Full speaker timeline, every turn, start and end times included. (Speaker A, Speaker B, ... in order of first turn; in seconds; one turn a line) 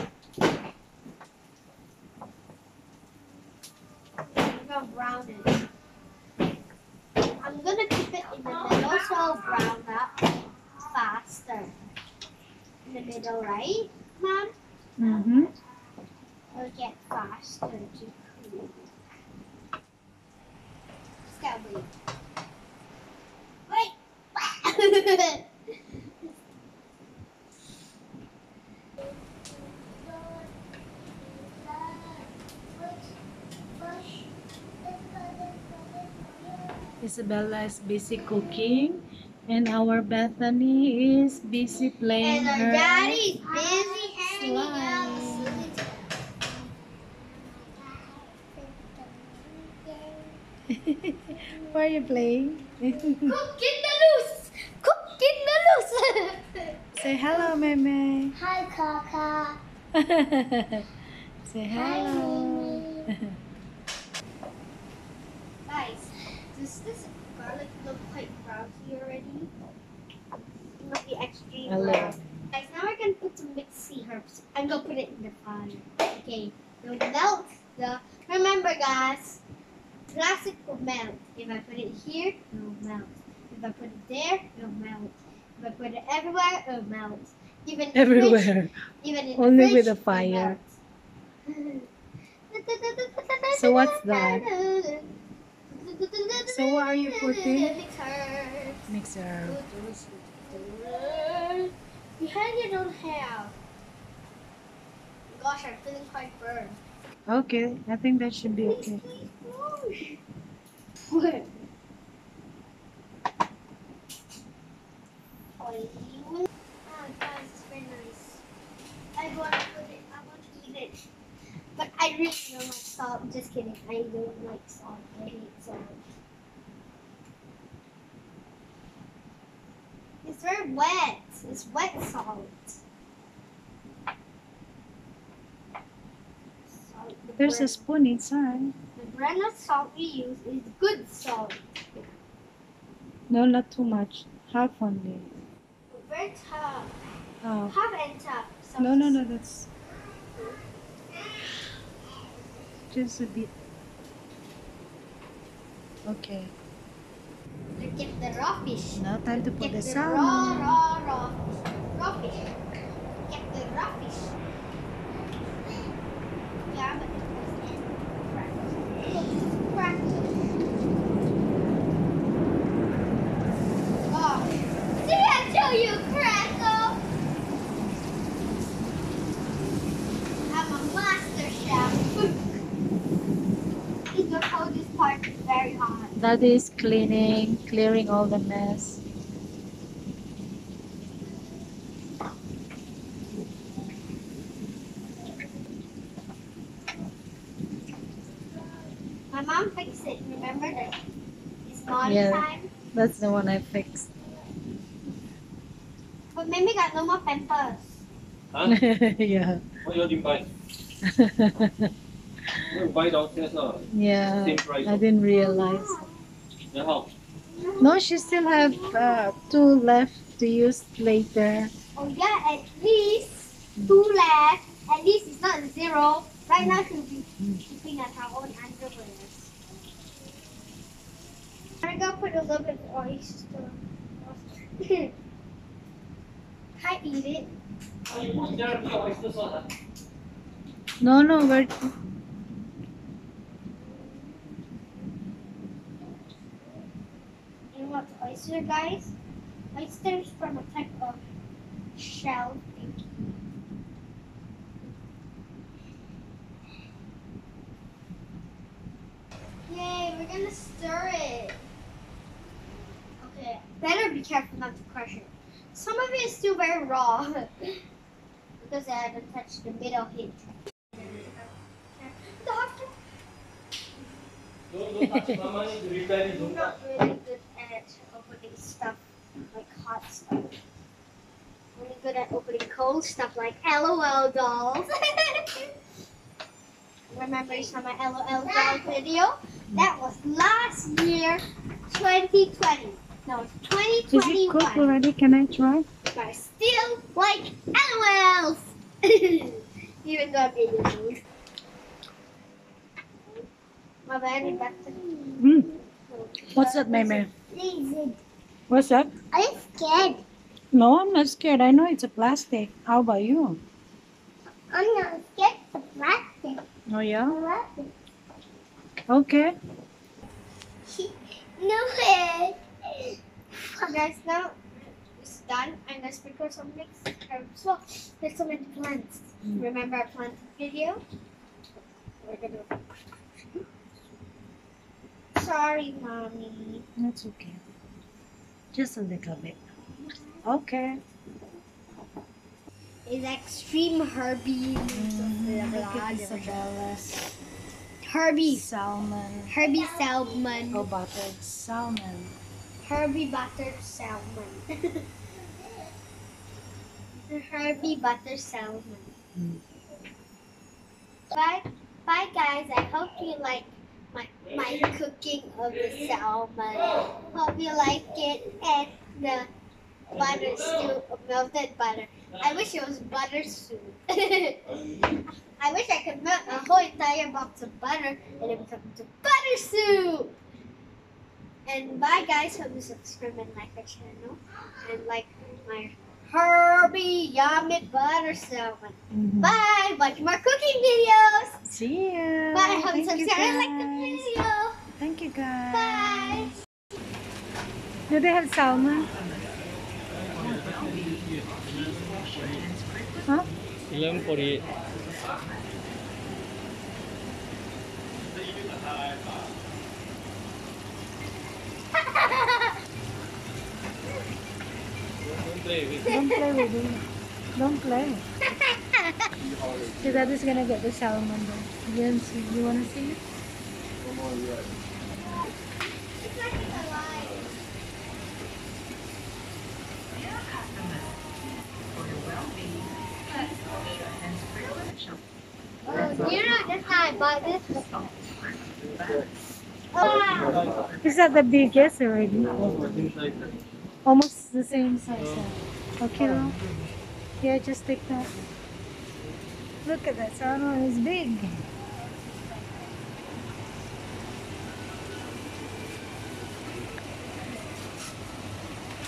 Speaker A: 4.3-5.7
Speaker A: 7.4-11.7
Speaker A: 12.8-14.5
Speaker B: 15.0-15.5
Speaker A: 16.5-18.9
Speaker A: 21.2-21.9
Speaker A: 23.7-25.5
Speaker A: 30.1-30.5
Speaker A: 31.4-33.1
Speaker A: 33.8-34.3
Speaker A: 34.9-36.7
Speaker B: 37.0-43.2
Speaker A: 42.2-46.4
Speaker B: 44.3-45.6
Speaker A: 47.2-50.4
Speaker B: 50.7-53.4
Speaker A: 53.2-57.3
Speaker B: 57.0-58.4
Speaker A: 58.4-59.6
Speaker B: 60.0-60.9
Speaker B: 61.5-63.4
Speaker A: 61.8-62.9
Speaker A: 65.7-69.5
Speaker A: 70.8-79.4
Speaker B: 71.7-72.2
Speaker A: 80.1-90.7
Speaker B: 88.0-88.7
Speaker B: 89.4-90.6
Speaker A: 91.5-91.9
Speaker A: 92.5-95.1
Speaker B: 93.5-94.5
Speaker A: 95.7-98.9
Speaker B: 96.5-97.7
Speaker B: 98.9-99.6
Speaker A: 99.4-103.5
Speaker A: 105.3-106.8
Speaker B: 107.3-109.0
Speaker A: 108.6-110.2
Speaker A: 111.1-111.5
Speaker A: 115.6-118.4
Speaker A: 119.2-121.1
Speaker A: 121.8-126.0
Speaker A: 130.2-132.8
Speaker A: 136.7-137.8
Speaker B: 137.4-138.7
Speaker A: 139.0-141.6
Speaker B: 143.3-145.3
Speaker A: 145.9-147.1
Speaker B: 147.4-147.7
Speaker A: 147.7-149.2
Speaker B: 148.8-149.7
Speaker A: 150.3-150.6
Speaker B: 152.9-153.5
Speaker B: 156.1-156.5
Speaker A: 157.8-162.6
Speaker B: 158.9-160.8
Speaker A: 163.3-164.3
Speaker A: 166.7-170.5
Speaker A: 174.1-177.0
Speaker A: 180.5-182.5
Speaker A: 184.1-186.2
Speaker B: 186.2-189.0
Speaker A: 199.3-201.0
Speaker A: 201.7-202.7
Speaker B: 202.1-204.1
Speaker A: 206.3-208.0
Speaker B: 208.7-209.6
Speaker C: 209.8-210.5
Speaker B: 211.1-211.9
Speaker C: 212.7-213.8
Speaker B: 213.9-216.0
Speaker C: 214.4-215.0
Speaker A: 215.3-216.3
Speaker C: 216.7-217.1
Speaker A: 217.5-219.2
Speaker B: 217.8-221.7
Speaker A: 221.9-229.5
Speaker A: 231.8-235.1
Speaker A: 236.8-237.6
Speaker C: 238.1-239.7
Speaker B: 241.0-241.9
Speaker A: 247.7-249.2
Speaker A: 249.7-251.2
Speaker A: 252.0-253.4
Speaker A: 259.7-261.7
Speaker A: 263.2-267.7
Speaker A: 268.6-272.9
Speaker C: 274.7-276.7
Speaker B: 275.0-275.4
Speaker A: 276.2-280.6
Speaker A: 281.8-285.7
Speaker A: 287.1-295.0
Speaker B: 294.1-295.9
Speaker A: 296.1-301.2
Speaker A: 304.1-308.2
Speaker B: 305.4-305.7
Speaker B: 306.5-307.3
Speaker B: 308.7-309.1
Speaker A: 309.3-310.2
Speaker B: 310.7-313.6
Speaker A: 314.7-316.6
Speaker B: 316.9-317.4
Speaker A: 317.3-317.9
Speaker B: 319.1-319.5
Speaker A: 320.9-323.1
Speaker A: 323.8-331.0
Speaker A: 332.2-332.8
Speaker A: 335.4-336.9
Speaker B: 337.0-337.6
Speaker B: 338.7-339.6
Speaker B: 340.4-341.0
Speaker A: 343.1-346.6
Speaker B: 344.9-347.4
Speaker A: 348.0-348.6
Speaker B: 348.5-349.5
Speaker A: 349.5-350.9
Speaker B: 350.7-352.4
Speaker A: 352.8-355.0
Speaker A: 357.1-359.1
Speaker B: 359.4-359.6
Speaker A: 361.3-369.5
Speaker A: 370.1-380.4
Speaker A: 381.7-391.6
Speaker B: 389.1-389.6
Speaker B: 391.7-394.3
Speaker A: 392.5-394.8
Speaker B: 395.0-396.4
Speaker A: 395.7-396.6
Speaker B: 398.1-399.1
Speaker C: 403.9-404.6
Speaker C: 408.4-409.4
Speaker A: 412.0-412.7
Speaker C: 415.2-416.1
Speaker A: 416.0-416.4
Speaker B: 416.1-417.1
Speaker B: 417.6-418.2
Speaker A: 418.6-419.2
Speaker B: 420.0-423.2
Speaker A: 426.1-427.5
Speaker A: 435.9-438.1
Speaker A: 439.9-440.6
Speaker C: 440.5-440.7
Speaker B: 441.0-443.1
Speaker C: 443.0-443.5
Speaker B: 444.1-446.5
Speaker B: 447.4-448.3
Speaker B: 449.9-451.6